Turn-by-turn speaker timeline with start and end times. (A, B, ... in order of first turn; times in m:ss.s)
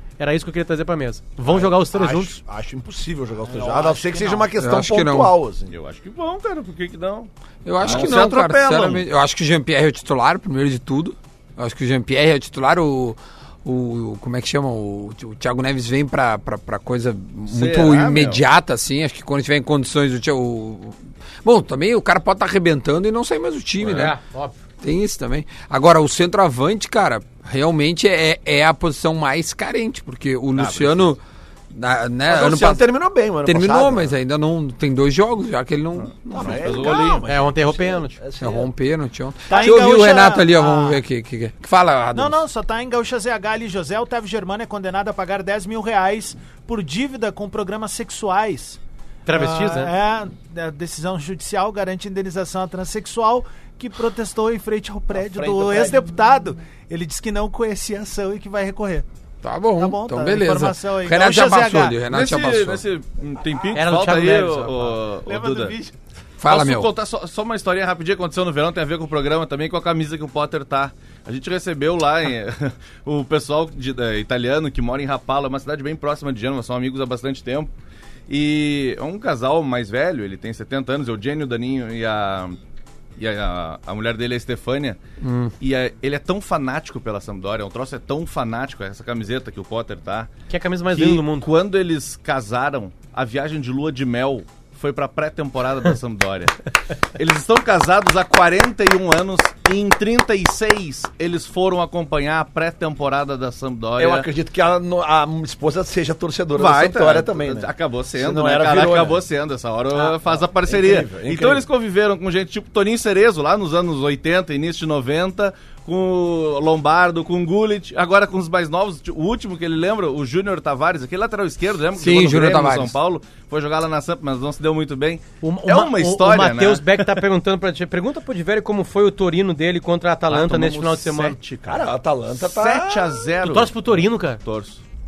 0:00.2-0:02.4 A
0:01.4-0:05.7 B
0:03.5-0:04.5 C
0:04.6-0:05.3 D
0:05.7-0:07.3 E
0:07.6-0:24.2 D
0:07.8-0:09.0 E
0:17.5-0:18.4 E
0:23.8-0:24.1 E
0:23.9-0:24.6 A
0:24.8-0:31.2 D
0:30.6-0:31.1 E
0:31.7-0:32.8 D
0:32.3-0:34.1 B
0:33.4-0:37.0 D
0:36.0-0:37.2 E
0:36.3-0:38.7 B
0:37.3-0:38.2 A
0:38.4-0:42.4 D
0:39.5-0:41.0 C
0:42.1-0:48.8 C
0:49.3-0:49.9 A
0:49.3-0:59.1 C
0:55.4-0:55.9 B
0:59.4-1:02.8 D
0:59.8-1:02.0 C
1:02.1-1:05.8 E
1:03.8-1:05.0 A
1:05.3-1:06.0 C
1:06.4-1:06.9 D
1:06.5-1:17.7 E
1:18.3-1:22.6 E
1:23.2-1:25.0 E
1:25.2-1:25.5 D
1:25.6-1:30.3 E
1:30.5-1:31.5 A
1:30.9-1:36.6 E
1:37.2-1:44.3 E
1:44.0-1:49.2 B
1:46.5-2:07.2 E
1:50.0-1:51.6 B
2:02.0-2:03.0 D
2:05.4-2:11.4 A
2:10.3-2:14.8 E
2:11.7-2:13.2 B
2:13.4-2:14.4 A